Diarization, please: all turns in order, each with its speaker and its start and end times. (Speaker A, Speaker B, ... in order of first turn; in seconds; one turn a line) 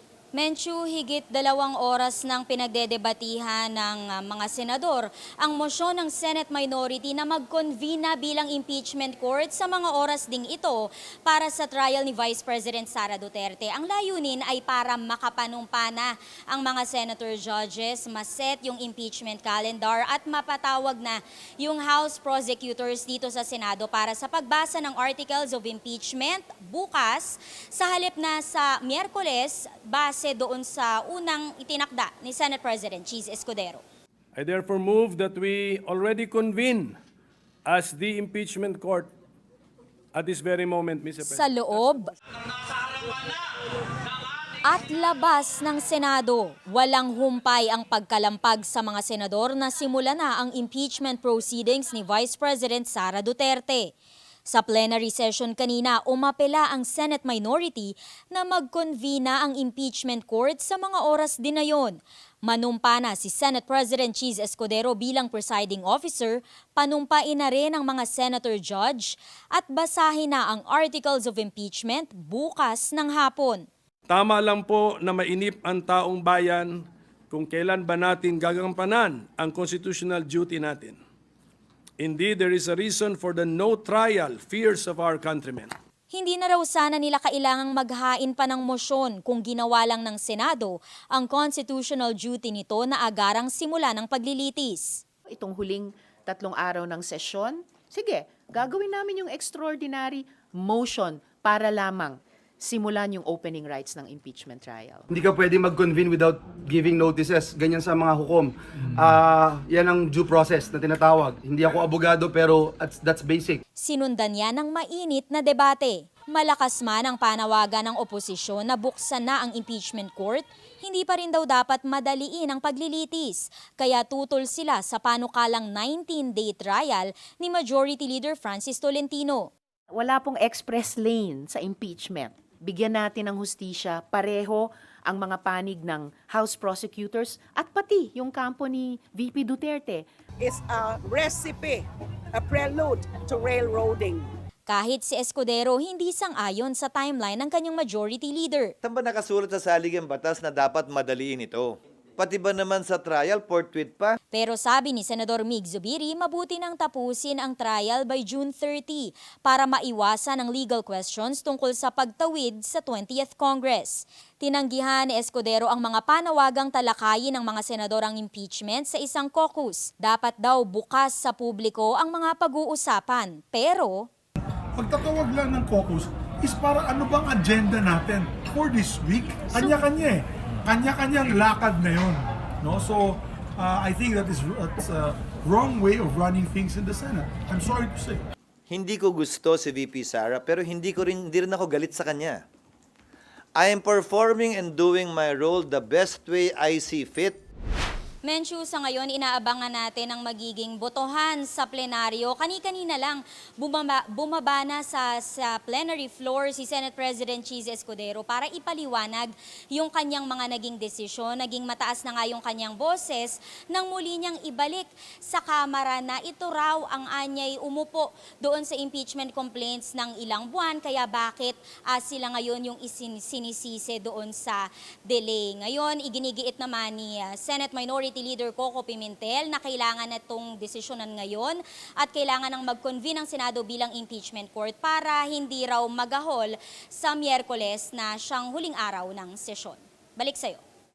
Speaker A: 0.3-33.8
Speaker B: 34.4-37.0
Speaker B: 37.6-39.1
Speaker B: 40.1-41.9
Speaker A: 41.2-42.1
Speaker A: 44.7-53.9
Speaker A: 54.5-73.7
Speaker B: 74.1-81.0
Speaker B: 82.0-85.7
Speaker A: 86.1-95.0
Speaker C: 95.3-105.1
Speaker D: 105.1-113.6
Speaker A: 113.8-129.5
Speaker C: 129.9-140.1
Speaker E: 140.4-144.3
Speaker A: 144.7-148.7
Speaker F: 148.8-154.1
Speaker A: 154.3-174.0
Speaker G: 174.8-188.2
Speaker F: 188.7-192.4
Speaker F: 193.6-197.4
Speaker A: 198.2-240.6